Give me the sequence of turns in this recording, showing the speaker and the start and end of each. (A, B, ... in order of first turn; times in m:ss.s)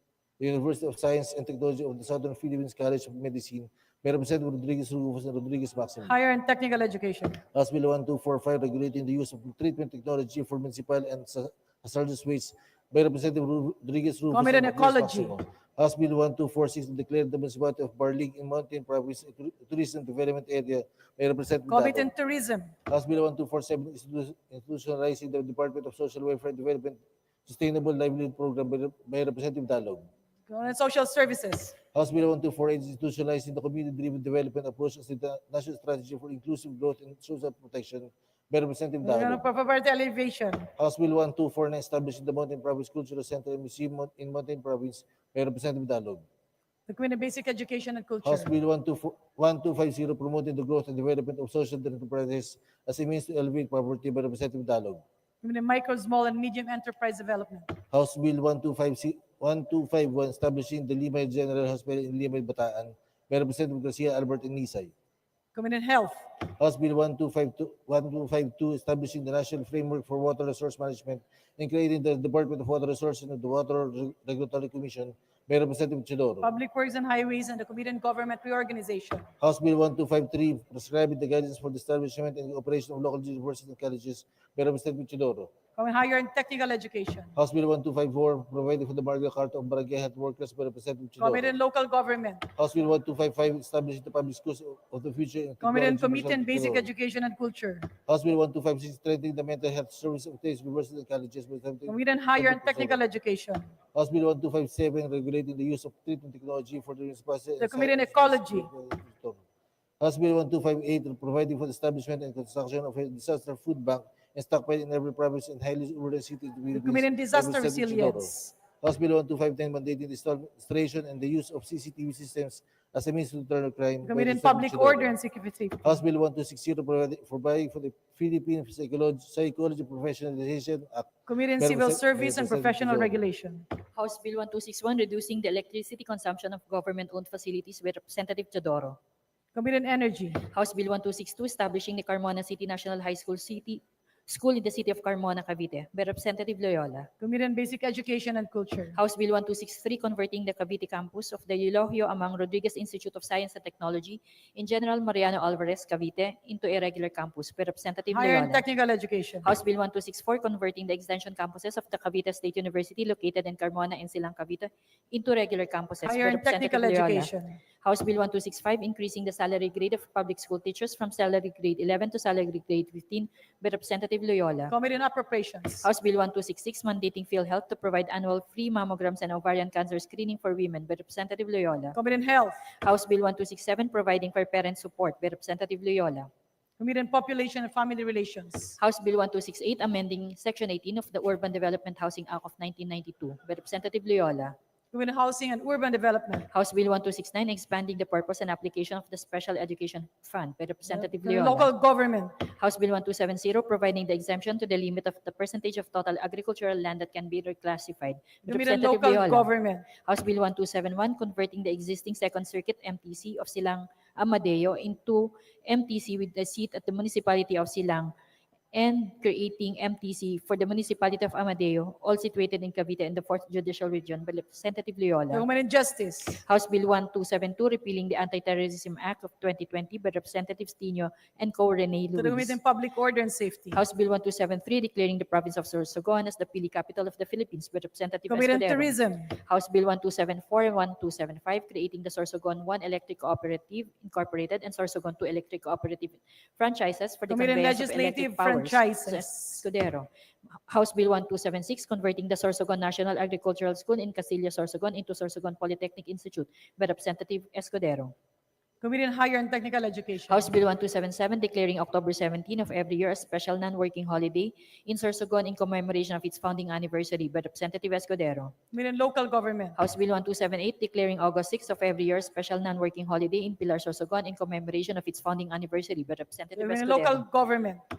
0:00.4-0:06.2 A
0:06.0-0:07.4 B
0:07.5-0:22.1 A
0:14.3-0:15.4 B
0:21.7-0:22.7 B
0:22.9-0:30.1 A
0:30.5-0:31.8 B
0:31.9-0:39.4 A
0:39.0-0:40.7 B
0:40.8-0:46.2 A
0:46.9-0:48.5 B
0:48.2-0:55.0 A
0:55.4-0:57.7 B
0:57.9-1:04.9 A
1:05.6-1:06.2 B
1:06.6-1:16.5 A
1:16.4-1:19.3 B
1:19.4-1:25.5 A
1:25.8-1:27.4 B
1:27.4-1:31.6 A
1:31.2-1:32.5 B
1:32.6-1:36.9 A
1:35.6-1:37.9 B
1:38.1-1:43.0 A
1:41.9-1:43.7 B
1:43.9-1:49.4 A
1:47.6-1:48.7 B
1:50.0-2:05.2 A
1:56.7-1:58.6 B
2:04.0-2:06.0 B
2:05.8-2:13.2 A
2:11.3-2:13.7 B
2:14.0-2:19.0 C
2:19.6-2:20.4 B
2:20.5-2:27.1 C
2:27.2-2:29.0 B
2:29.0-2:38.6 C
2:38.1-2:39.5 B
2:39.4-2:47.3 C
2:46.0-2:47.6 B
2:47.8-2:54.7 C
2:54.7-2:55.9 B
2:55.8-3:02.0 C
3:02.0-3:02.6 B
3:02.8-3:06.3 C
3:06.8-3:08.8 B
3:08.8-3:14.6 C
3:14.9-3:16.5 B
3:16.5-3:21.7 C
3:20.9-3:22.4 B
3:22.6-3:38.1 C
3:28.5-3:29.9 B
3:38.7-3:45.4 C
3:45.3-3:46.4 B
3:46.4-3:52.6 C
3:52.2-3:53.8 B
3:53.7-4:10.1 C
3:58.3-3:59.3 B
4:07.3-4:09.6 B
4:10.7-4:18.1 C
4:18.8-4:20.5 B
4:20.3-4:28.5 C
4:28.7-4:29.8 B
4:29.8-4:37.2 C
4:36.6-4:37.8 B